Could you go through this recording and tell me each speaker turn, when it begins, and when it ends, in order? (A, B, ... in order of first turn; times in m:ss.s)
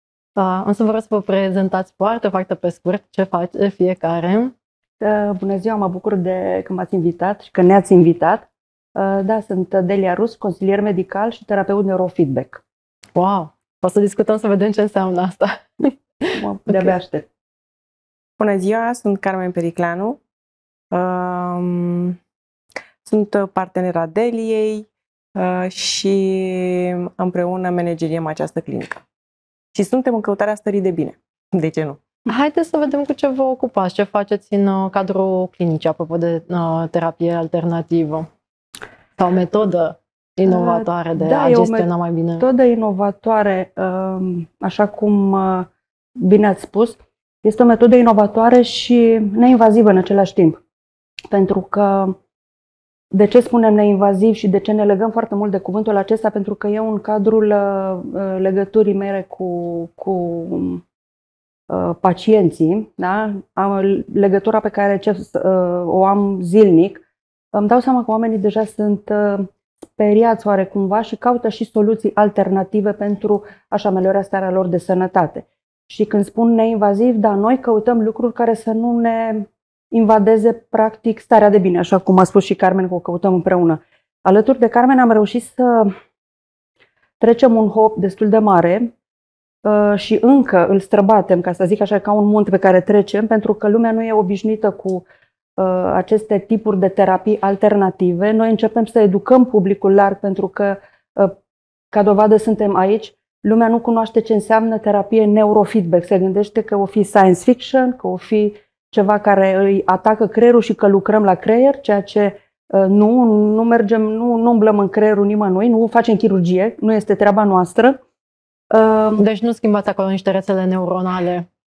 0:00.4-0:04.5 A
0:05.0-0:12.6 B
0:13.2-0:16.9 A
0:16.4-0:17.3 B
0:18.4-0:20.2 C
0:20.9-0:22.2 C
0:23.0-0:29.0 C
0:29.7-0:32.0 C
0:32.3-0:38.3 A
0:39.2-0:42.5 A
0:40.4-0:41.9 B
0:42.4-0:50.6 B
0:51.3-0:52.2 B
0:53.1-1:00.8 B
1:01.7-1:07.0 B
1:07.5-1:25.9 B
1:27.2-1:28.9 B
1:29.6-1:35.0 B
1:35.6-1:41.4 B
1:41.9-1:58.0 B
1:58.7-1:59.2 B
1:59.2-2:01.5 A